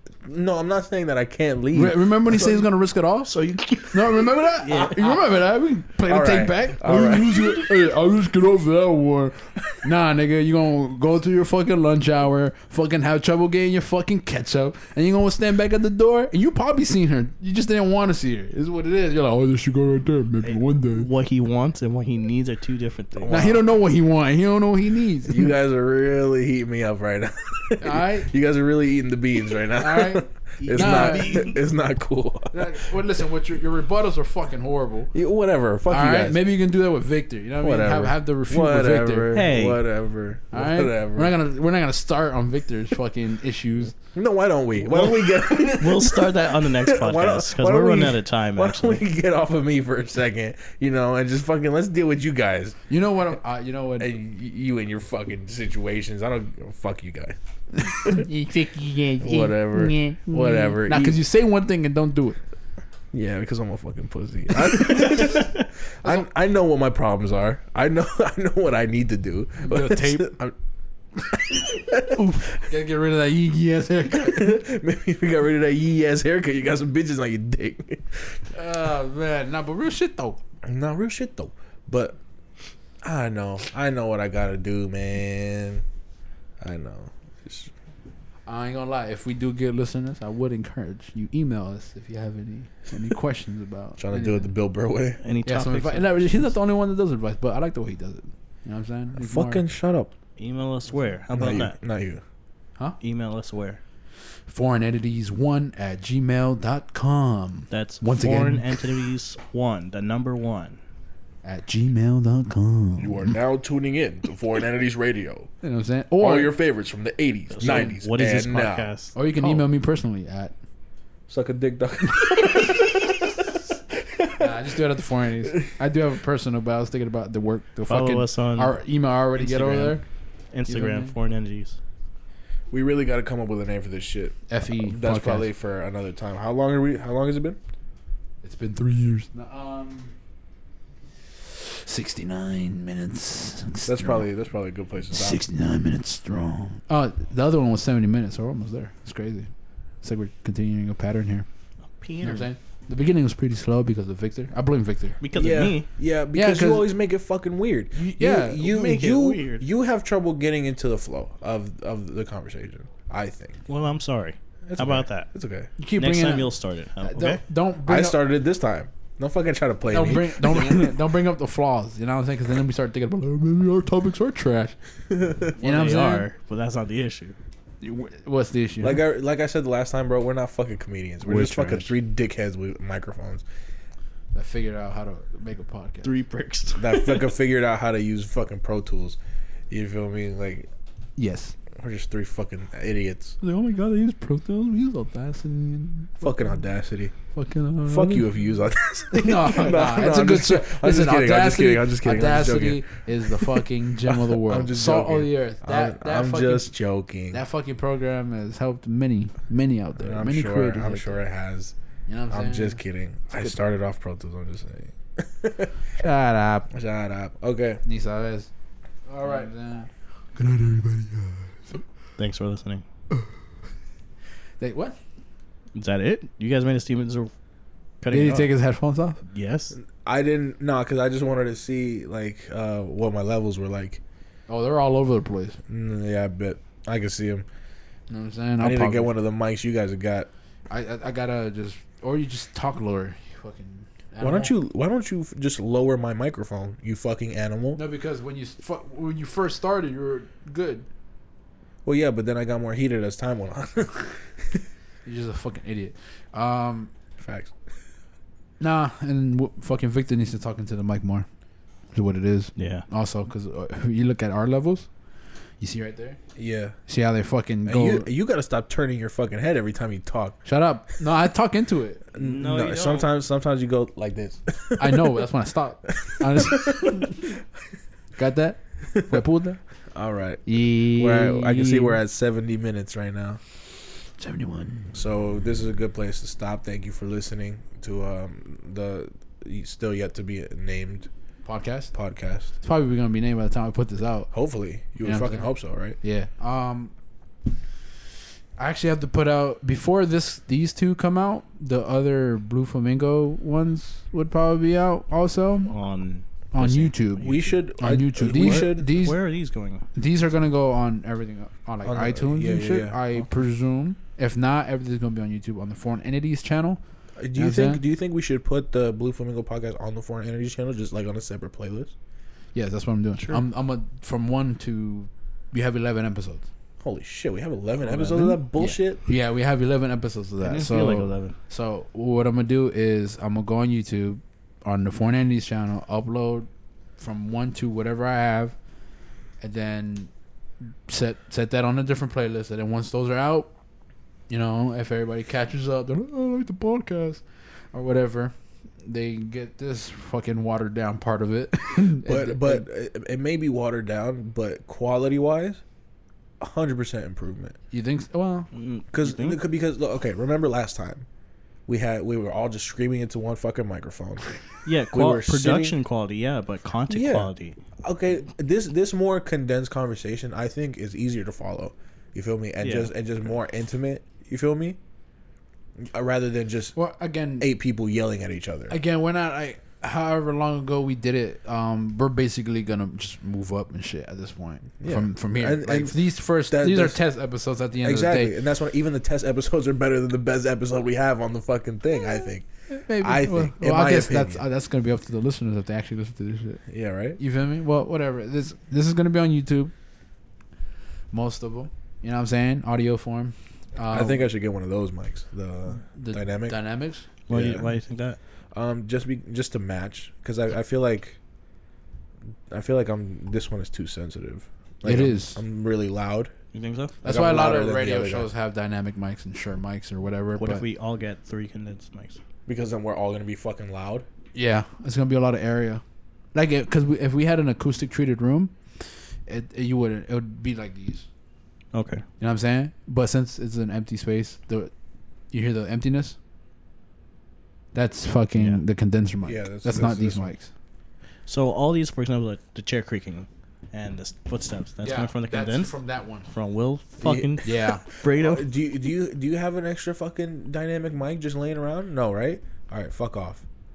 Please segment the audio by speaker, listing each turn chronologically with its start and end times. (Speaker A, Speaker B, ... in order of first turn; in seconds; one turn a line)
Speaker A: 0.2-2.4
Speaker B: 1.7-3.3
Speaker C: 2.3-2.6
Speaker C: 3.2-5.3
Speaker B: 3.9-21.1
Speaker A: 6.1-7.5
Speaker C: 20.4-23.4
Speaker A: 23.2-23.6
Speaker B: 23.3-25.6
Speaker A: 25.3-32.9
Speaker B: 27.8-28.3
Speaker B: 29.7-31.5
Speaker C: 30.6-31.6
Speaker B: 32.5-35.1
Speaker A: 35.1-36.4
Speaker B: 35.9-39.4
Speaker A: 37.6-41.3
Speaker C: 39.3-39.8
Speaker B: 40.5-44.0
Speaker A: 44.1-52.8
Speaker C: 44.8-49.0
Speaker B: 52.9-54.1
Speaker A: 54.0-57.4
Speaker B: 57.7-62.4
Speaker A: 58.0-58.2
Speaker A: 59.2-61.2
Speaker A: 63.1-70.5
Speaker B: 65.1-65.3
Speaker B: 69.6-70.3
Speaker A: 71.3-72.6
Speaker B: 72.0-74.6
Speaker A: 74.1-78.4
Speaker B: 78.5-80.4
Speaker A: 80.7-82.2
Speaker A: 83.0-85.8
Speaker A: 86.6-87.7
Speaker B: 88.5-94.5
Speaker A: 94.0-95.2
Speaker C: 95.2-96.5
Speaker B: 95.5-99.6
Speaker A: 99.2-100.1
Speaker C: 100.4-101.8
Speaker A: 101.3-102.2
Speaker C: 103.0-103.8
Speaker B: 104.5-108.9
Speaker C: 107.7-110.8
Speaker B: 111.4-113.4
Speaker A: 113.0-115.5
Speaker B: 115.6-116.5
Speaker A: 116.2-118.9
Speaker C: 117.5-119.6
Speaker B: 117.6-118.0
Speaker B: 119.2-120.5
Speaker A: 121.3-124.5
Speaker B: 124.4-130.0
Speaker A: 125.5-125.8
Speaker C: 127.9-128.8
Speaker C: 129.4-130.0
Speaker C: 130.5-131.8
Speaker B: 130.7-131.2
Speaker A: 132.7-137.6
Speaker B: 134.5-135.5
Speaker B: 138.4-140.2
Speaker B: 141.4-144.3
Speaker A: 143.9-145.4
Speaker B: 145.1-149.5
Speaker B: 150.0-151.5
Speaker C: 152.0-152.5
Speaker B: 152.2-155.2
Speaker C: 155.2-155.9
Speaker A: 155.3-163.6
Speaker B: 156.3-156.9
Speaker B: 157.9-158.7
Speaker C: 158.6-159.7
Speaker C: 163.7-165.3
Speaker A: 164.7-165.7
Speaker B: 165.8-168.2
Speaker C: 166.0-167.4
Speaker A: 167.9-171.0
Speaker B: 169.9-174.8
Speaker A: 175.2-175.5
Speaker B: 175.6-176.3
Speaker C: 175.6-177.4
Speaker B: 177.8-179.0
Speaker A: 178.8-183.4
Speaker C: 181.2-181.9
Speaker B: 184.3-186.1
Speaker C: 186.0-187.3
Speaker A: 186.8-189.2
Speaker A: 189.7-190.7
Speaker B: 191.2-191.6
Speaker A: 191.8-193.4
Speaker B: 193.4-196.6
Speaker A: 196.2-197.1
Speaker B: 197.3-198.3
Speaker A: 197.8-207.4
Speaker B: 199.1-206.7
Speaker B: 207.3-211.2
Speaker A: 210.0-211.8
Speaker B: 212.1-213.6
Speaker A: 212.3-215.7
Speaker B: 216.0-216.7
Speaker A: 216.7-217.8
Speaker B: 217.8-218.5
Speaker A: 219.1-219.5
Speaker B: 219.2-221.8
Speaker C: 222.2-222.8
Speaker B: 224.6-225.0
Speaker C: 225.8-227.3
Speaker C: 228.0-228.5
Speaker B: 228.1-229.2
Speaker C: 229.3-229.8
Speaker A: 229.8-234.0
Speaker B: 234.5-235.6
Speaker A: 235.7-237.5
Speaker B: 238.1-239.1
Speaker A: 238.6-240.3
Speaker B: 240.7-244.6
Speaker A: 244.2-247.8
Speaker B: 247.8-250.9
Speaker A: 251.8-254.6
Speaker B: 255.1-256.9
Speaker A: 257.2-257.5
Speaker B: 258.6-261.3
Speaker B: 261.9-264.9
Speaker C: 262.6-262.9
Speaker B: 265.6-266.2
Speaker A: 266.4-266.8
Speaker B: 266.9-268.1
Speaker A: 267.6-270.4
Speaker B: 270.4-272.0
Speaker A: 272.1-275.2
Speaker C: 272.2-273.1
Speaker B: 274.8-277.4
Speaker A: 275.9-277.3
Speaker B: 278.2-279.6
Speaker A: 279.9-283.4
Speaker B: 280.4-282.0
Speaker B: 284.2-284.9
Speaker A: 284.9-291.1
Speaker B: 291.4-291.9
Speaker A: 291.9-292.6
Speaker B: 292.6-294.3
Speaker A: 294.3-296.0
Speaker B: 295.0-295.5
Speaker B: 296.0-296.9
Speaker B: 298.6-305.7
Speaker C: 305.7-307.5
Speaker B: 306.5-309.2
Speaker A: 307.2-309.0
Speaker C: 308.3-309.9
Speaker B: 309.9-316.8
Speaker A: 311.9-313.0
Speaker A: 317.2-321.9
Speaker B: 317.3-317.8
Speaker B: 322.5-326.5
Speaker A: 326.8-329.0
Speaker B: 327.8-338.6
Speaker C: 330.4-331.4
Speaker B: 339.4-340.1
Speaker B: 340.9-343.5
Speaker B: 344.3-352.6
Speaker A: 351.9-355.6
Speaker A: 356.4-357.6
Speaker B: 357.7-358.5
Speaker C: 358.5-359.4
Speaker A: 358.9-361.1
Speaker A: 361.7-364.4
Speaker C: 364.7-367.6
Speaker A: 364.9-365.8
Speaker A: 366.9-367.3
Speaker A: 367.8-374.8
Speaker C: 372.6-372.9
Speaker A: 375.8-376.8
Speaker B: 376.8-377.5
Speaker A: 377.4-378.8
Speaker B: 378.7-388.3
Speaker A: 384.8-387.0
Speaker A: 387.8-392.5
Speaker B: 392.7-396.6
Speaker A: 393.0-394.4
Speaker A: 396.7-397.2
Speaker B: 397.2-399.7
Speaker B: 401.1-404.3
Speaker A: 403.9-406.6
Speaker B: 405.8-407.1
Speaker C: 407.3-408.2
Speaker A: 407.3-407.7
Speaker A: 408.6-411.2
Speaker A: 412.5-416.3
Speaker B: 414.8-415.4
Speaker C: 416.5-417.0
Speaker A: 417.0-418.3
Speaker B: 417.0-420.7
Speaker C: 420.4-422.2
Speaker A: 422.5-424.1
Speaker B: 424.4-425.8
Speaker B: 426.3-431.1
Speaker C: 431.7-432.0
Speaker B: 432.2-434.7
Speaker B: 435.3-436.2
Speaker B: 437.7-440.5
Speaker A: 439.2-440.3
Speaker C: 441.3-448.5
Speaker B: 444.8-446.3
Speaker A: 447.0-453.4
Speaker B: 447.4-447.8